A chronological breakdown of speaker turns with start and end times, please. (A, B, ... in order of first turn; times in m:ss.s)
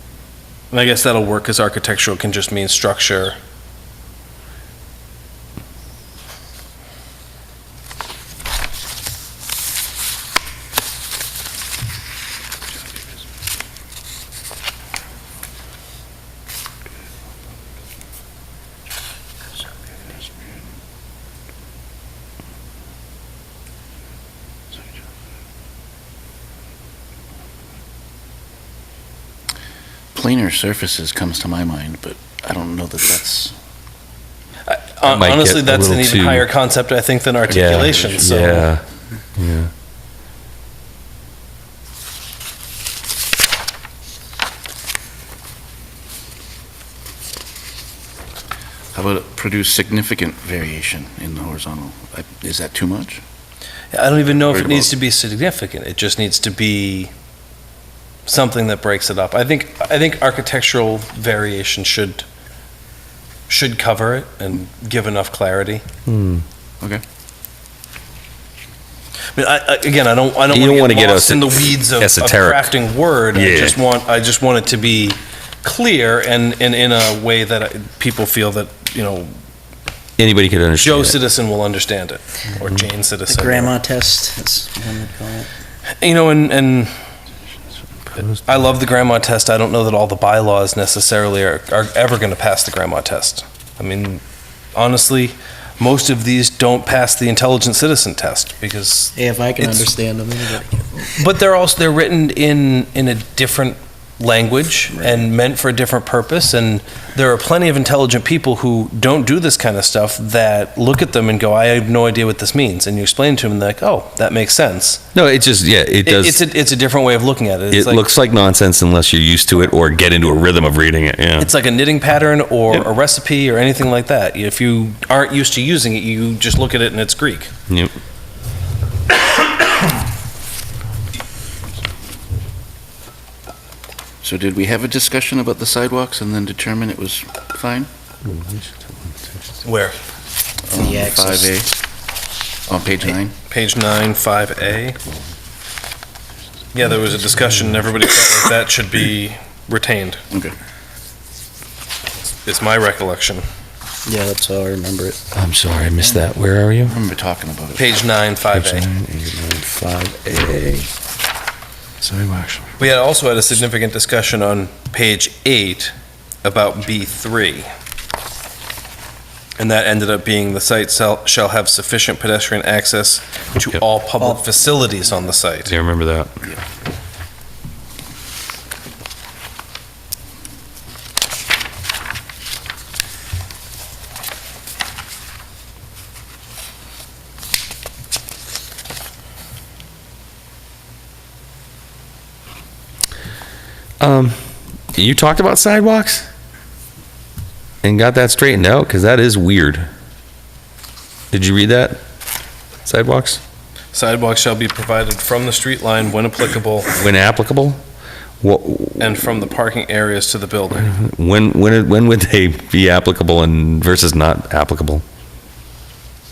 0:00.7-0:03.4 A
0:30.1-0:33.5 B
0:34.7-0:38.7 A
0:35.0-0:36.5 C
0:37.5-0:38.8 C
0:39.4-0:39.7 C
0:48.9-0:53.2 B
0:53.9-0:57.1 A
0:54.5-0:54.9 B
0:58.3-1:02.2 A
1:03.5-1:05.8 A
1:06.0-1:06.4 C
1:09.3-1:19.3 A
1:10.5-1:12.7 C
1:13.3-1:13.8 C
1:20.2-1:21.2 C
1:20.8-1:23.7 A
1:23.3-1:25.5 D
1:26.0-1:26.9 A
1:28.4-1:34.2 A
1:34.8-1:39.9 A
1:39.1-1:41.3 D
1:41.2-1:55.0 A
1:55.1-1:56.4 C
1:56.0-1:58.0 A
1:57.7-2:01.5 C
2:01.4-2:07.5 A
2:07.7-2:07.9 C
2:14.2-2:17.9 B
2:18.3-2:18.7 C
2:19.6-2:20.0 A
2:20.7-2:21.7 B
2:20.7-2:21.6 D
2:22.7-2:23.3 B
2:23.5-2:25.0 A
2:26.7-2:30.2 A
2:32.5-2:33.4 A
2:34.1-2:35.2 D
2:35.3-2:37.0 C
2:36.8-2:37.9 B
2:37.8-2:38.9 A
2:38.5-2:40.9 C
2:42.0-2:42.8 C
2:42.8-2:45.9 A
2:46.4-2:47.7 A
2:49.6-2:55.7 A
2:55.7-2:56.4 C
3:14.0-3:14.4 C
3:15.0-3:16.3 C
3:17.8-3:19.9 C
3:21.3-3:22.0 C
3:22.9-3:23.4 C
3:23.9-3:26.9 A
3:27.0-3:27.8 C
3:28.4-3:29.2 C
3:29.0-3:30.9 A
3:30.8-3:35.0 C